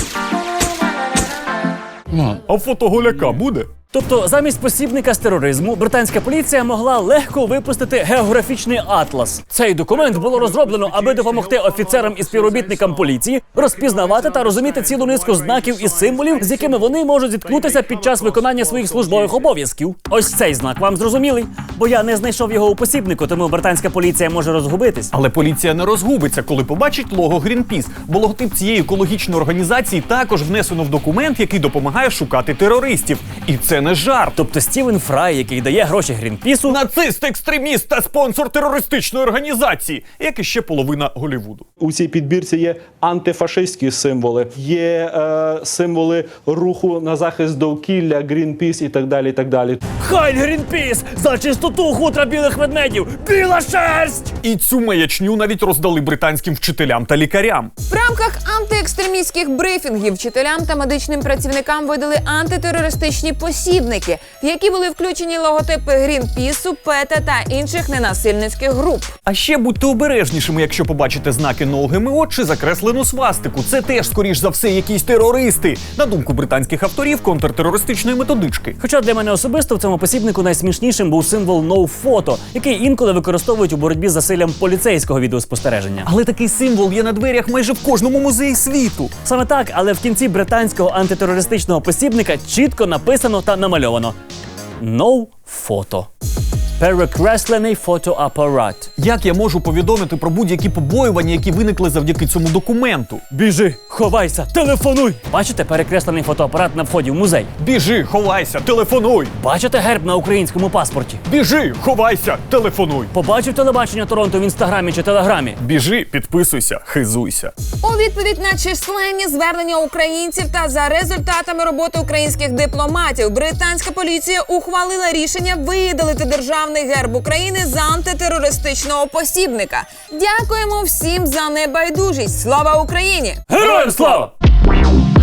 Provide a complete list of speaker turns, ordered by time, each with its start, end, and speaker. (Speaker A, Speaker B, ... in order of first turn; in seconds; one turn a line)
Speaker A: 2.1-3.7
Speaker B: 3.9-25.1
Speaker A: 25.1-34.4
Speaker B: 34.4-36.8
Speaker A: 36.7-41.7
Speaker C: 41.8-49.8
Speaker B: 50.0-54.3
Speaker A: 54.4-57.7
Speaker D: 57.9-69.1
Speaker A: 69.3-78.8
Speaker B: 78.8-86.1
Speaker A: 86.0-89.1
Speaker B: 89.2-94.2
Speaker B: 94.8-96.1
Speaker B: 96.8-98.9
Speaker A: 99.0-103.2
Speaker B: 103.3-107.5
Speaker A: 107.6-109.3
Speaker B: 109.4-111.2
Speaker A: 111.3-113.1
Speaker B: 113.1-115.6
Speaker A: 115.6-117.5
Speaker D: 117.8-133.4
Speaker B: 133.5-134.3